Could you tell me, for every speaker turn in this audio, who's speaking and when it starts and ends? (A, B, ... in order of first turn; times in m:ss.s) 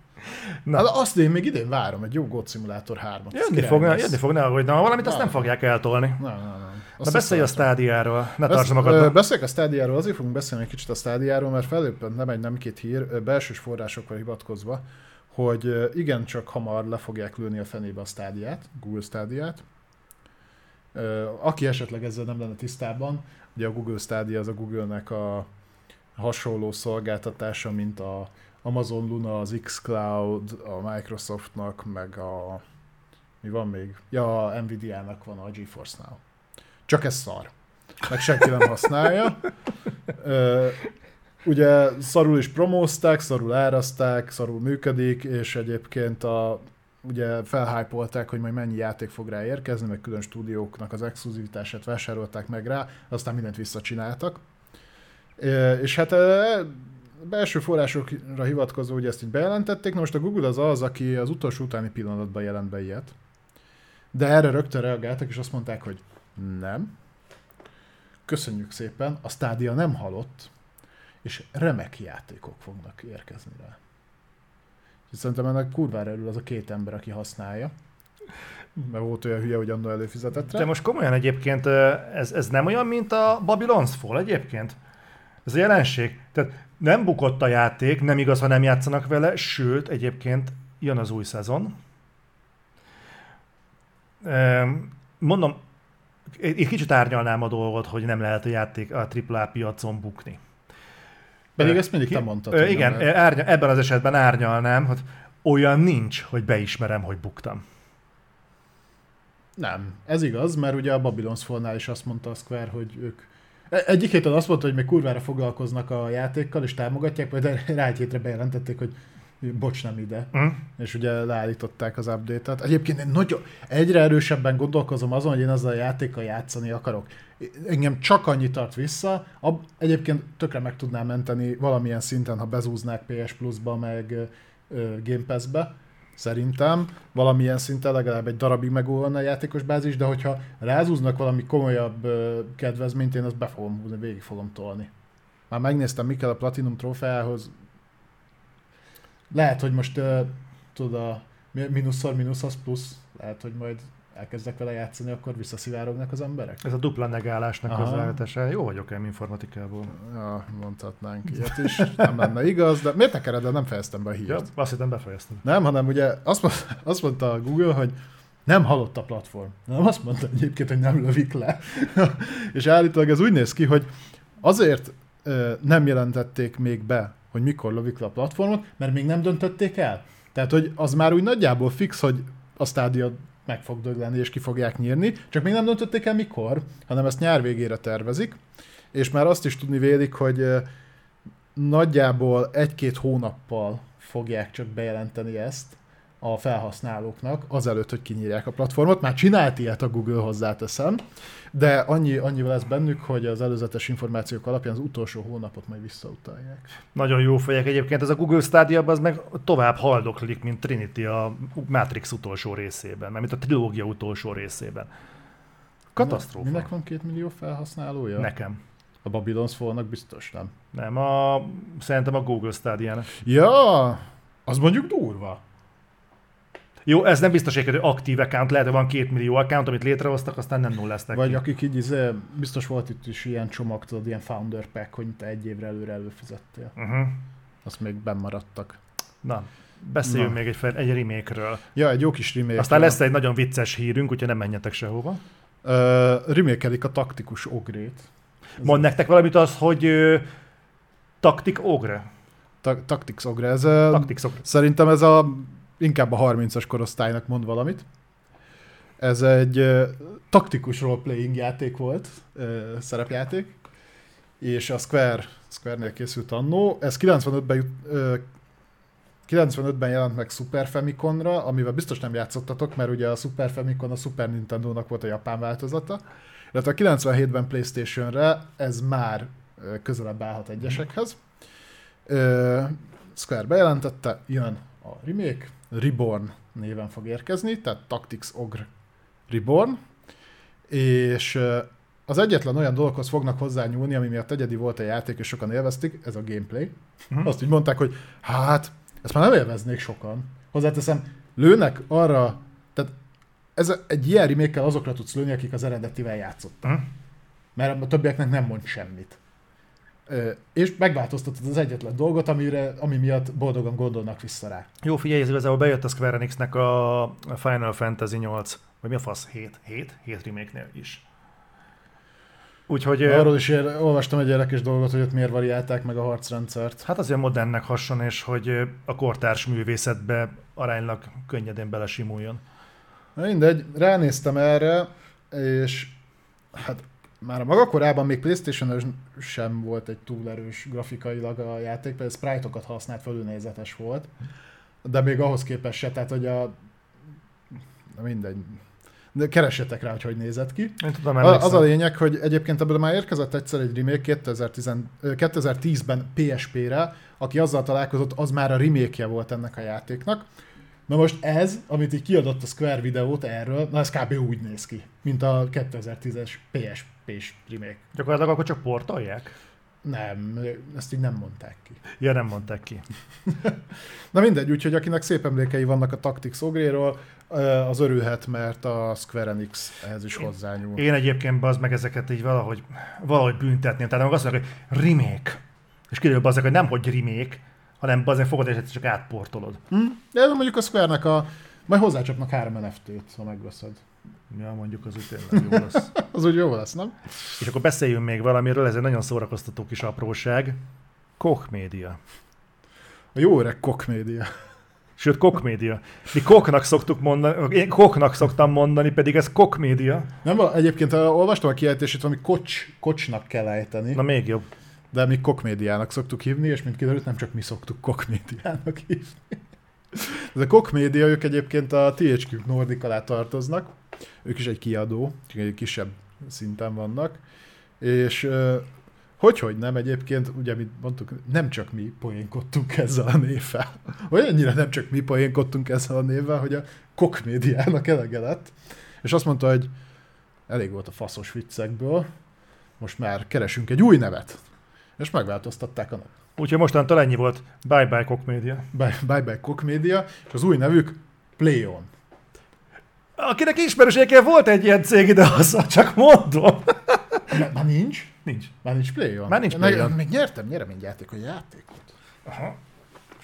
0:00.3-0:00.8 A
0:00.7-0:04.2 B
0:03.3-0:06.2 A
0:05.0-0:05.4 B
0:06.2-0:07.7 B
0:07.0-0:09.2 A
0:08.5-0:19.6 B
0:20.9-0:25.5 B
0:26.2-0:32.6 B
0:33.4-0:36.2 B
0:36.9-0:37.5 B
0:38.1-0:39.4 B
0:40.1-0:40.8 B
0:41.4-0:54.4 B
0:55.4-1:03.2 B
1:04.1-1:06.9 B
1:08.3-1:10.5 B
1:11.2-1:13.8 B
1:15.1-1:17.7 B
1:18.8-1:20.7 B
1:20.5-1:24.8 A
1:25.5-1:31.8 A
1:34.2-1:35.6 A
1:36.3-1:40.4 A
1:41.6-1:43.1 B
1:41.6-1:47.6 A
1:49.6-2:24.9 B
2:00.3-2:00.6 A
2:25.5-2:27.5 B
2:29.3-2:36.6 B
2:36.6-2:40.0 A
2:37.7-2:38.2 B
2:39.9-2:44.5 B
2:41.4-2:42.1 A
2:44.3-2:45.4 A
2:45.4-2:48.0 B
2:48.5-2:53.9 B
2:54.4-3:08.4 B
3:08.9-3:10.7 B
3:11.6-3:21.0 B
3:21.5-3:26.7 B
3:27.0-3:34.9 A
3:35.9-3:36.7 A
3:36.0-3:38.3 B
3:38.2-3:38.6 A
3:39.0-3:40.5 B
3:40.7-3:43.1 A
3:43.2-3:45.4 B
3:46.9-3:51.4 A
3:51.1-3:56.8 B
3:56.8-3:57.2 A
3:57.6-3:58.8 B
3:59.2-4:01.6 A
4:00.0-4:00.4 B
4:01.8-4:03.0 B
4:02.6-4:05.2 A
4:05.6-4:08.1 B
4:08.6-4:10.2 A
4:11.2-4:12.1 A
4:12.6-4:17.9 B
4:13.9-4:14.4 A
4:19.0-4:23.6 B
4:24.4-4:28.2 B
4:29.3-4:36.0 B
4:36.5-4:41.2 B
4:42.1-4:48.7 B
4:49.3-4:49.8 B
4:50.7-5:02.9 B
5:03.6-5:06.8 B
5:07.6-5:09.2 B
5:10.1-5:14.7 B
5:14.8-5:21.0 A
5:22.7-5:23.3 A
5:23.0-5:26.8 B
5:26.8-5:32.4 A
5:33.2-5:36.0 B
5:36.5-5:44.1 B
5:44.8-5:46.5 B
5:47.9-5:48.6 B
5:49.1-6:00.3 B
5:50.8-5:51.7 A
6:00.9-6:07.8 B
6:08.0-6:09.3 A
6:09.8-6:11.8 B
6:12.0-6:12.8 A
6:13.3-6:13.6 B
6:14.1-6:20.8 B
6:20.8-6:25.4 A
6:25.9-6:29.6 A
6:29.7-6:33.8 B
6:34.3-6:35.9 A
6:35.3-6:37.0 B
6:37.4-6:40.6 A
6:41.2-6:42.0 A
6:43.2-6:44.3 B
6:45.0-6:50.1 A
6:50.2-6:54.0 B
6:53.9-6:54.5 A
6:54.9-6:59.4 B
6:59.9-7:07.2 B
7:07.8-7:08.7 B
7:09.2-7:19.7 B
7:20.5-7:22.1 B
7:22.8-7:24.4 B
7:25.0-7:26.1 B
7:26.4-7:28.7 A
7:28.7-7:31.9 B
7:33.2-7:37.4 A
7:37.3-7:41.9 B
7:38.3-7:38.5 A
7:39.3-7:39.9 A
7:42.3-7:42.6 A